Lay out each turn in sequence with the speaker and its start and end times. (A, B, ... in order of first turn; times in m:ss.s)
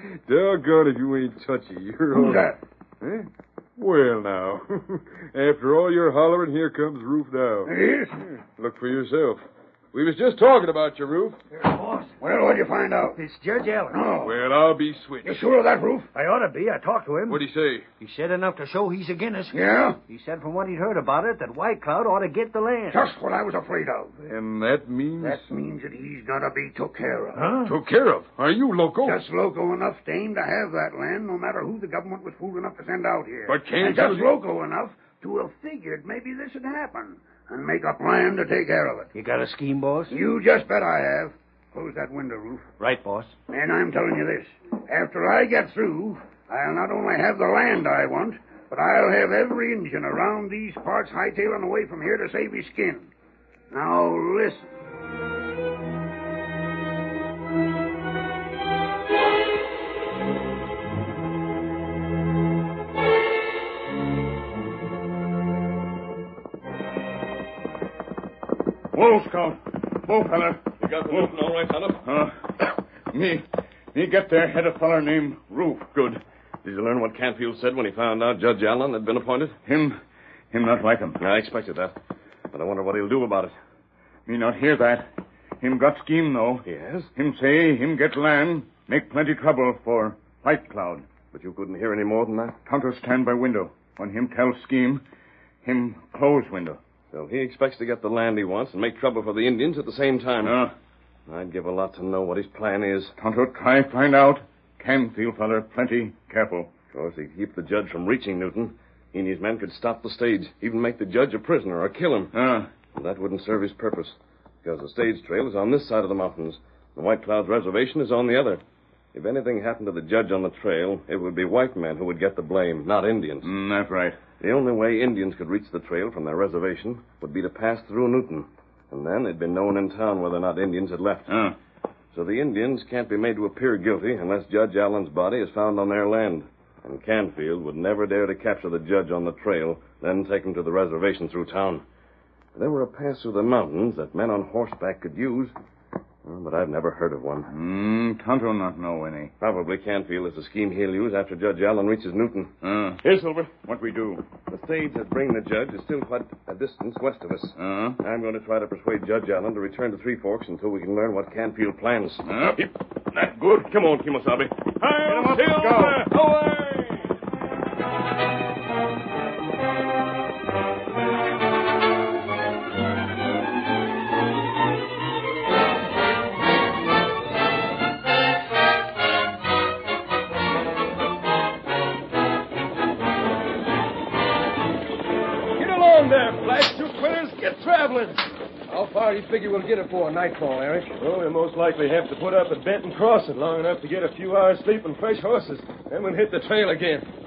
0:00.3-0:07.7 A
0:02.1-0:02.6 B
0:07.6-0:08.2 B
0:08.4-0:11.4 A
0:11.5-0:12.2 C
0:12.2-0:13.2 B
0:13.2-0:14.0 C
0:13.9-0:14.4 B
0:14.2-0:15.4 A
0:15.2-0:16.1 B
0:16.1-0:17.4 C
0:17.3-0:17.9 A
0:18.0-0:23.0 C
0:19.5-0:20.0 B
0:22.9-0:24.1 B
0:24.2-0:25.5 A
0:25.2-0:27.6 B
0:27.4-0:27.7 C
0:27.6-0:29.2 A
0:29.0-0:39.1 B
0:33.5-0:34.4 A
0:39.1-0:40.1 C
0:40.1-0:42.7 B
0:42.8-0:43.4 C
0:43.5-0:53.1 B
0:53.7-0:54.7 B
1:08.9-1:11.3 D
1:10.8-1:12.0 E
1:12.0-1:16.2 D
1:16.6-1:19.6 E
1:19.7-1:20.0 D
1:20.5-1:21.2 D
1:21.2-1:22.0 E
1:22.5-1:23.6 E
1:24.3-1:25.1 D
1:25.6-1:31.1 D
1:26.7-1:27.1 E
1:31.3-1:32.6 E
1:32.7-1:35.0 D
1:35.6-1:36.8 D
1:37.1-1:40.6 E
1:40.4-1:40.7 D
1:41.3-1:43.1 E
1:43.2-1:46.7 D
1:46.9-1:52.3 E
1:52.3-1:52.7 D
1:52.9-1:58.6 E
1:59.1-2:03.5 E
2:03.4-2:04.2 D
2:04.4-2:11.3 E
2:11.3-2:11.6 D
2:12.1-2:21.8 E
2:22.6-2:25.5 E
2:26.2-2:27.5 E
2:27.5-2:29.3 D
2:29.4-2:33.5 E
2:32.6-2:33.0 D
2:33.6-2:34.2 D
2:34.5-2:46.0 E
2:37.6-2:38.0 D
2:42.2-2:42.6 D
2:44.9-2:46.1 D
2:45.1-2:47.0 A
3:05.6-3:08.2 F
3:08.7-3:10.9 G
3:11.0-3:17.1 F